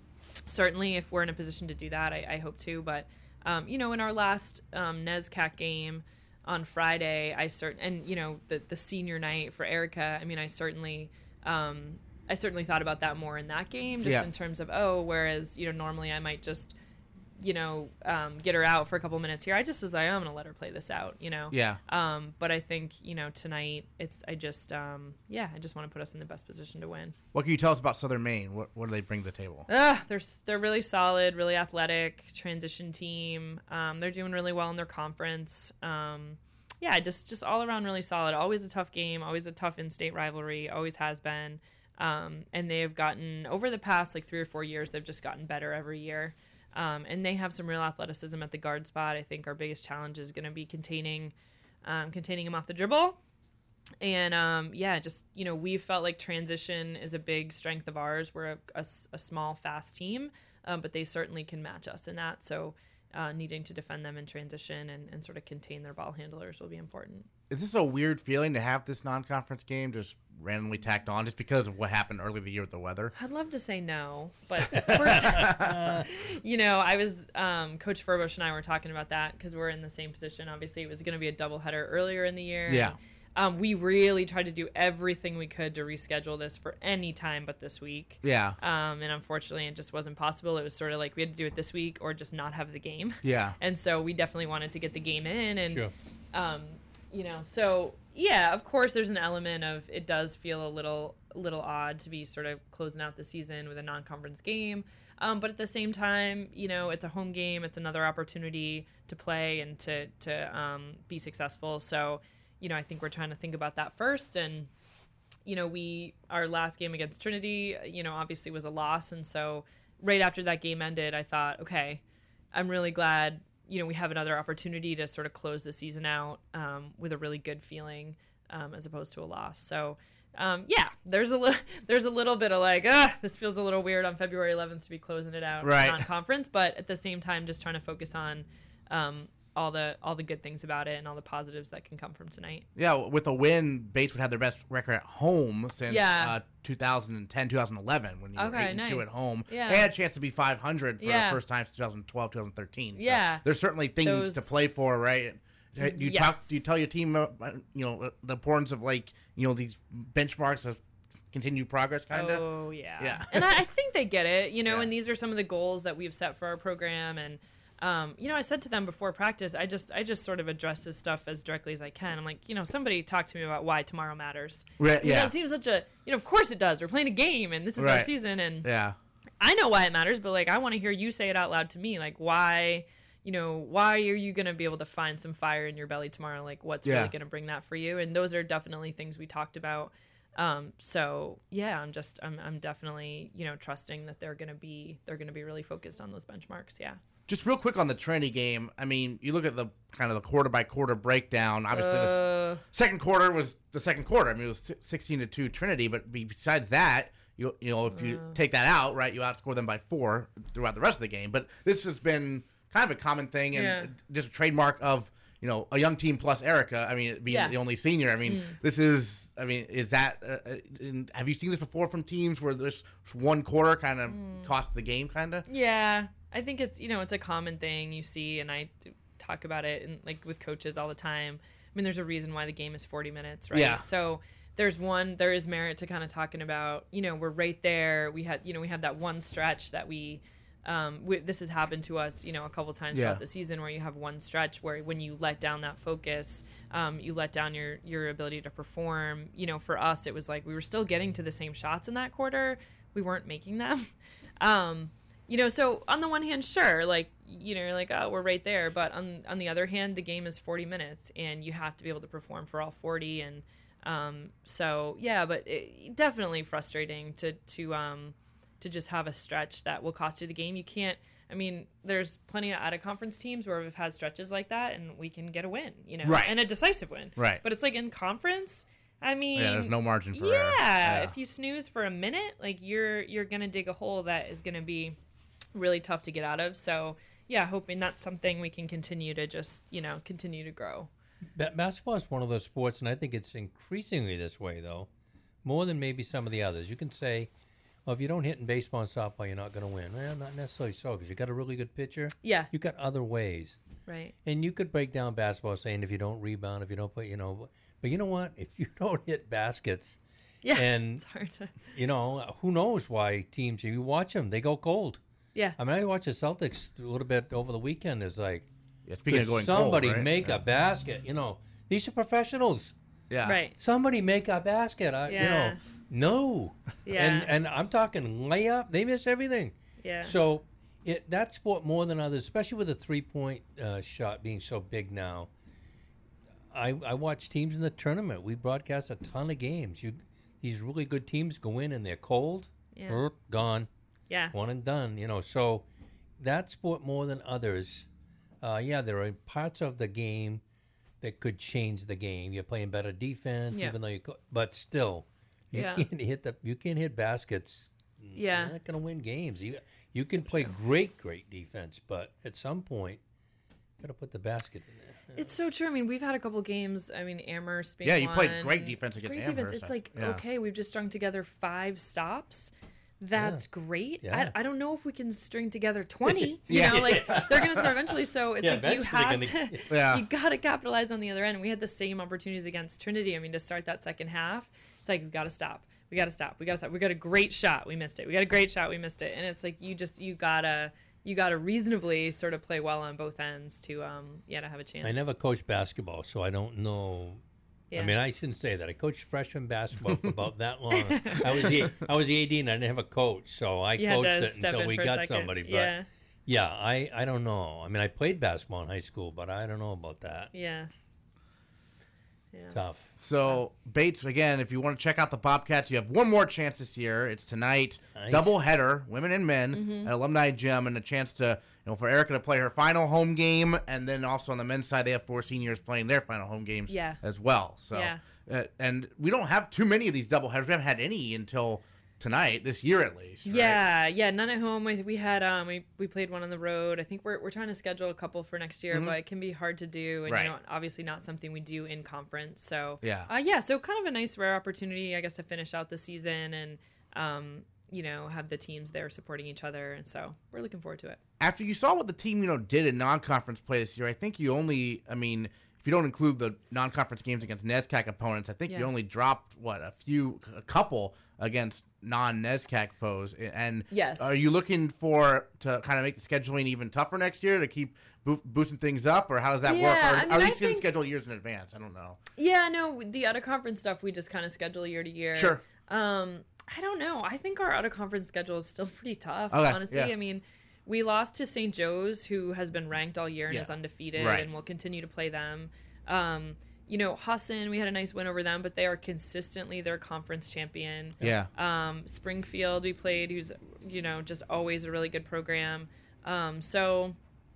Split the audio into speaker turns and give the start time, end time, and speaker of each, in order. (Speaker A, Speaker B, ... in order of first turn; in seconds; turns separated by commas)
Speaker A: 0.5-16.7, Speaker A: 17.4-27.1, Speaker B: 21.5-21.8, Speaker B: 27.3-29.7, Speaker A: 29.7-53.2, Speaker A: 54.0-67.3, Speaker B: 67.5-73.1, Speaker A: 73.1-114.7, Speaker C: 74.7-76.1, Speaker B: 74.9-75.8, Speaker B: 82.7-83.0, Speaker B: 88.2-88.6, Speaker B: 93.2-93.6, Speaker A: 115.4-122.0, Speaker A: 122.5-142.7, Speaker B: 135.6-136.0, Speaker B: 142.8-162.4, Speaker A: 145.9-146.3, Speaker A: 148.4-149.9, Speaker A: 151.0-151.4, Speaker A: 153.0-153.5, Speaker A: 154.0-154.8, Speaker A: 155.8-156.7, Speaker A: 162.1-178.7, Speaker B: 163.0-163.5, Speaker B: 174.8-175.3, Speaker B: 177.8-178.1, Speaker B: 178.6-178.9, Speaker A: 179.4-197.0, Speaker B: 186.8-187.1, Speaker B: 197.3-225.4, Speaker A: 201.7-202.6, Speaker A: 207.9-208.4, Speaker A: 213.5-213.9, Speaker A: 217.3-217.6, Speaker A: 218.2-218.6, Speaker A: 224.1-224.5, Speaker A: 225.5-285.0, Speaker B: 233.5-233.8, Speaker B: 242.9-243.2, Speaker B: 276.0-276.3, Speaker B: 279.3-281.1, Speaker A: 285.5-290.9, Speaker C: 291.4-294.9, Speaker C: 295.4-297.3, Speaker C: 297.8-303.6, Speaker A: 302.2-302.5, Speaker A: 303.9-304.1, Speaker C: 304.2-310.0, Speaker A: 310.4-311.6, Speaker C: 310.5-311.0, Speaker C: 311.7-315.0, Speaker C: 315.6-318.5, Speaker B: 318.9-320.4, Speaker C: 319.1-322.7, Speaker B: 323.1-323.4, Speaker A: 323.2-323.6, Speaker C: 323.6-335.3, Speaker A: 325.1-325.6, Speaker A: 326.8-327.3, Speaker A: 329.8-330.1, Speaker C: 336.5-343.7, Speaker A: 342.7-343.0, Speaker A: 344.1-344.3, Speaker C: 344.3-345.6, Speaker C: 346.2-347.9, Speaker C: 348.4-350.4, Speaker C: 351.0-363.0, Speaker A: 355.5-355.9, Speaker A: 358.1-358.6, Speaker C: 363.8-365.2, Speaker A: 365.1-395.1, Speaker B: 367.8-370.2, Speaker C: 373.1-373.4, Speaker C: 374.0-374.3, Speaker C: 376.1-379.7, Speaker B: 376.5-377.3, Speaker B: 379.7-380.0, Speaker C: 394.8-397.2, Speaker A: 397.7-397.9, Speaker C: 397.7-405.7, Speaker A: 400.7-401.5, Speaker A: 403.8-405.9, Speaker C: 406.2-410.3, Speaker A: 410.3-410.7, Speaker A: 412.3-412.6, Speaker C: 412.5-412.9, Speaker B: 413.0-433.6, Speaker C: 417.9-418.3, Speaker A: 419.5-419.9, Speaker A: 426.7-427.0, Speaker A: 427.7-428.0, Speaker A: 433.2-451.0, Speaker B: 440.1-440.3, Speaker B: 442.8-443.1, Speaker B: 451.2-472.0, Speaker A: 463.7-464.3, Speaker A: 469.4-470.6, Speaker A: 472.1-497.0, Speaker B: 475.1-475.4, Speaker B: 479.3-479.9, Speaker B: 483.3-484.3, Speaker B: 491.0-491.3